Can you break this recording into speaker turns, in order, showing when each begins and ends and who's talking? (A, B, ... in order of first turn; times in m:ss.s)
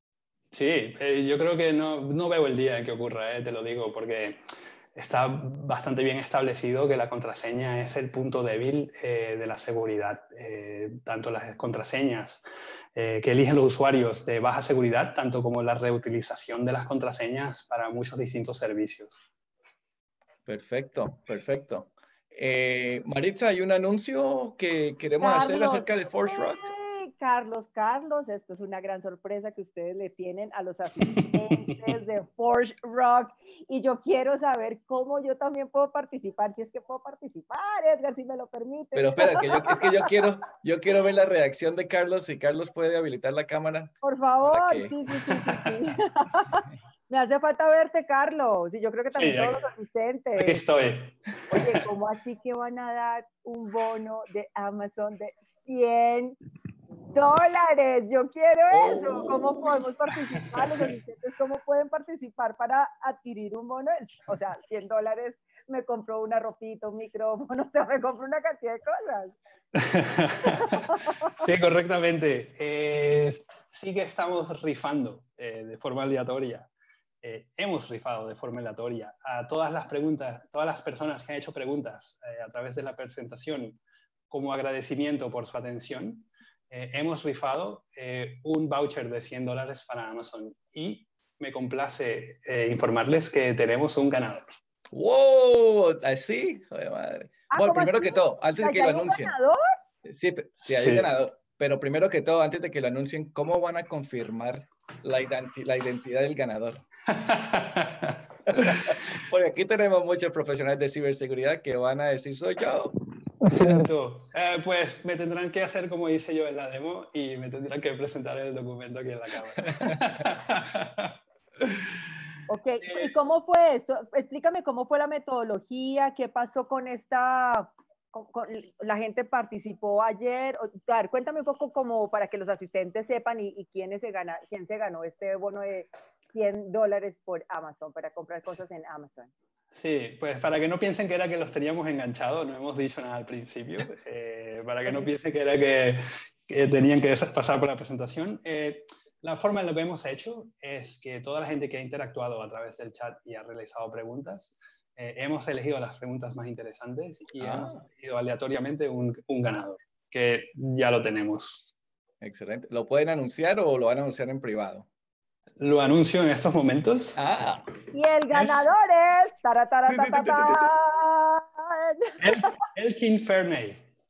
0:00.5-0:04.4 A
0:04.9-0:12.4 A
0:12.9-0:19.2 A
0:20.5-0:26.7 B
0:25.2-0:40.0 C
0:31.2-0:31.7 A
0:38.9-0:45.0 B
0:44.0-0:50.6 C
0:49.2-0:49.7 A
0:50.4-0:51.8 A
0:51.5-0:56.4 C
0:57.1-1:09.4 C
0:58.7-0:59.8 B
1:09.7-1:16.7 A
1:10.4-1:11.3 C
1:17.2-1:23.8 A
1:24.3-1:34.6 A
1:34.9-1:39.3 B
1:37.5-1:39.6 C
1:40.0-1:46.8 B
1:40.6-1:41.1 A
1:47.1-1:48.8 A
1:48.5-1:53.0 B
1:53.4-2:01.8 A
2:02.5-2:19.3 C
2:19.7-2:41.7 A
2:37.4-2:37.8 B
2:42.2-2:44.9 B
2:45.6-2:47.2 A
2:47.1-2:47.7 B
2:47.9-2:52.5 C
2:48.3-2:48.6 A
2:49.9-2:50.7 B
2:52.2-2:53.8 A